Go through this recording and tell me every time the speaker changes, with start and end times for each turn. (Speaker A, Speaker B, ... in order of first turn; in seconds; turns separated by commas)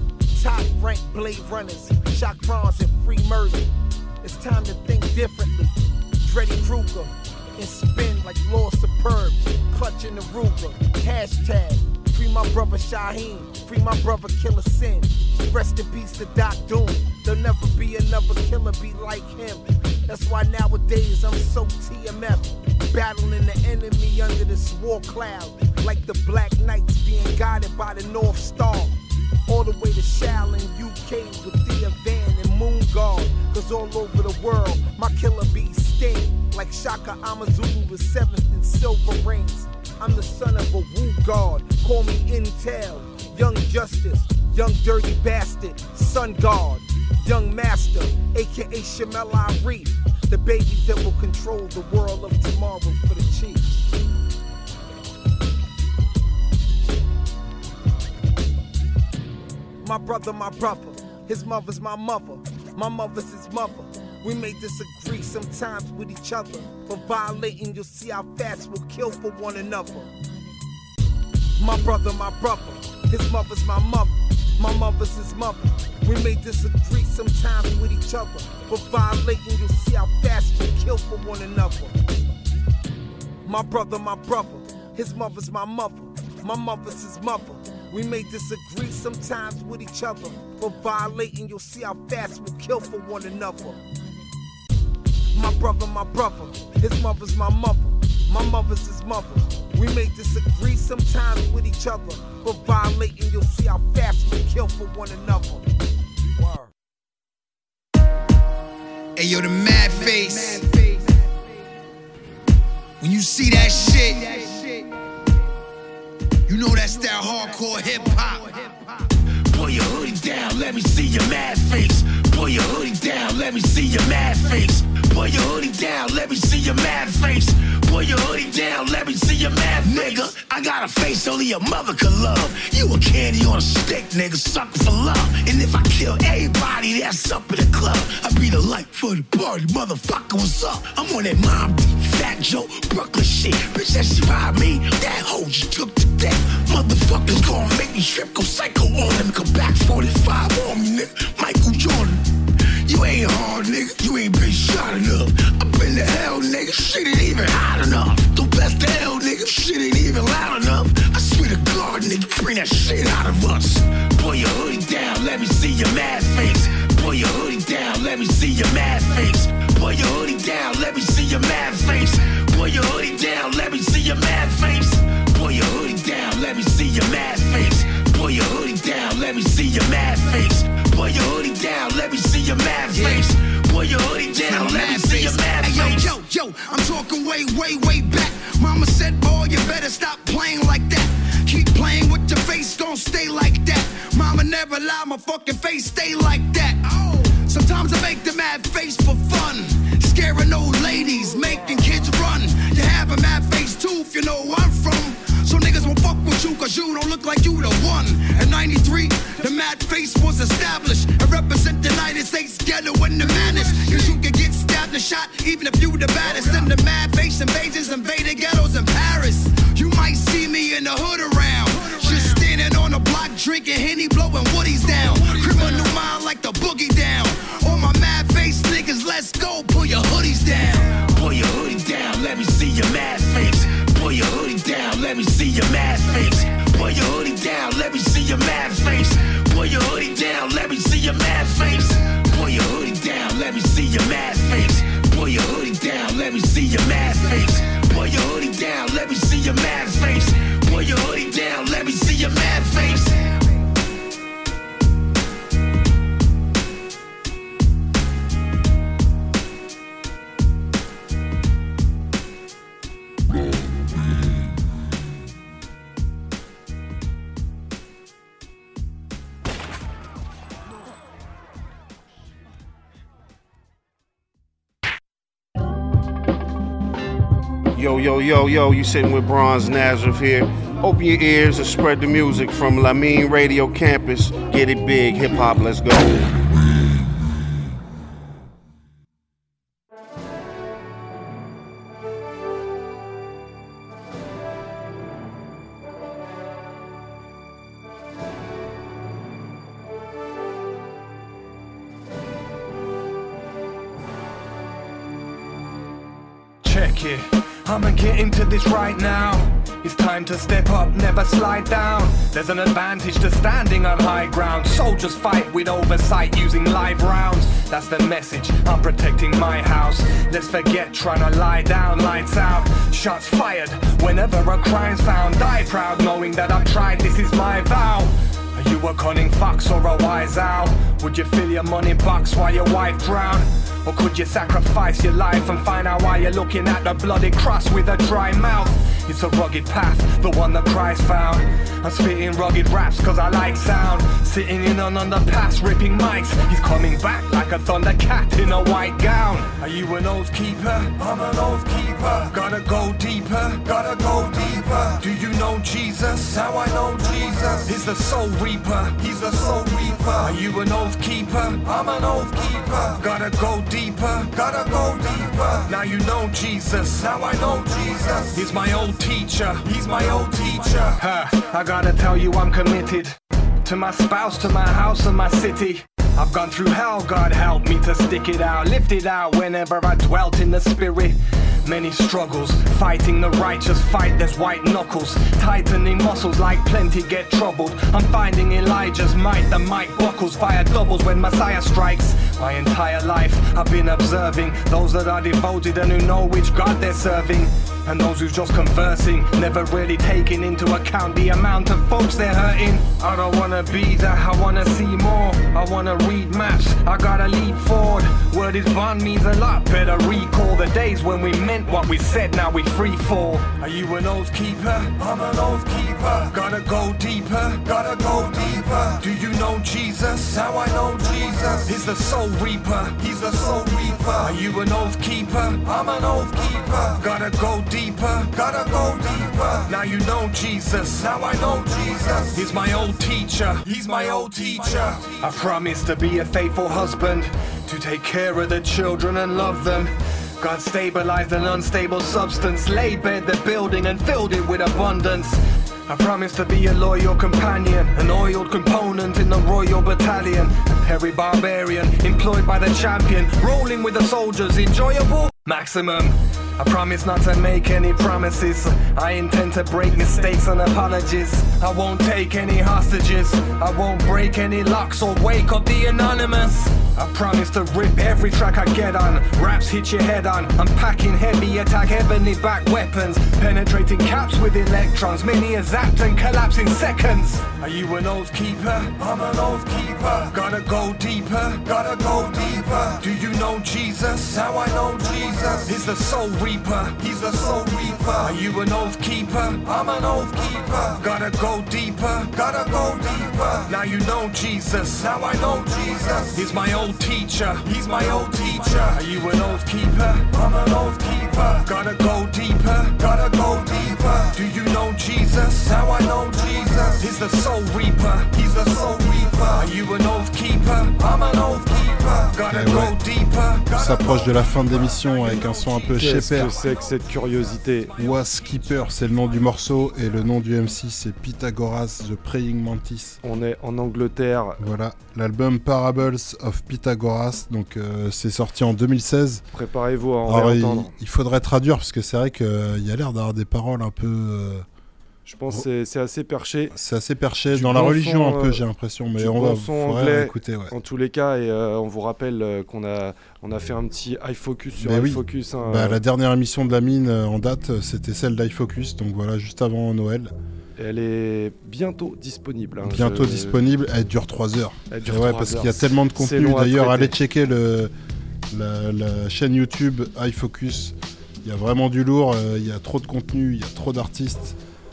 Speaker A: 0.3-3.7, Speaker A: 4.2-5.7, Speaker A: 6.2-28.9, Speaker A: 29.5-53.8, Speaker A: 59.8-70.1, Speaker A: 71.6-81.9, Speaker A: 83.5-93.8, Speaker A: 95.3-105.6, Speaker B: 109.2-111.0, Speaker B: 113.0-114.7, Speaker B: 116.5-118.6, Speaker C: 119.5-152.2, Speaker C: 152.9-186.1, Speaker B: 182.9-183.2, Speaker B: 184.4-231.1, Speaker C: 231.1-253.2, Speaker D: 277.8-286.2, Speaker E: 306.6-514.4, Speaker F: 512.5-513.0, Speaker F: 513.7-516.6, Speaker G: 516.0-517.9, Speaker F: 518.0-523.2, Speaker G: 523.2-524.7, Speaker F: 524.6-529.4, Speaker G: 529.5-530.9, Speaker F: 530.2-534.7, Speaker G: 535.3-536.7, Speaker F: 536.7-540.7, Speaker G: 537.5-538.6, Speaker G: 539.2-546.0, Speaker F: 544.8-550.3, Speaker G: 550.8-553.6, Speaker F: 552.9-557.9, Speaker G: 554.9-557.1, Speaker F: 558.5-564.6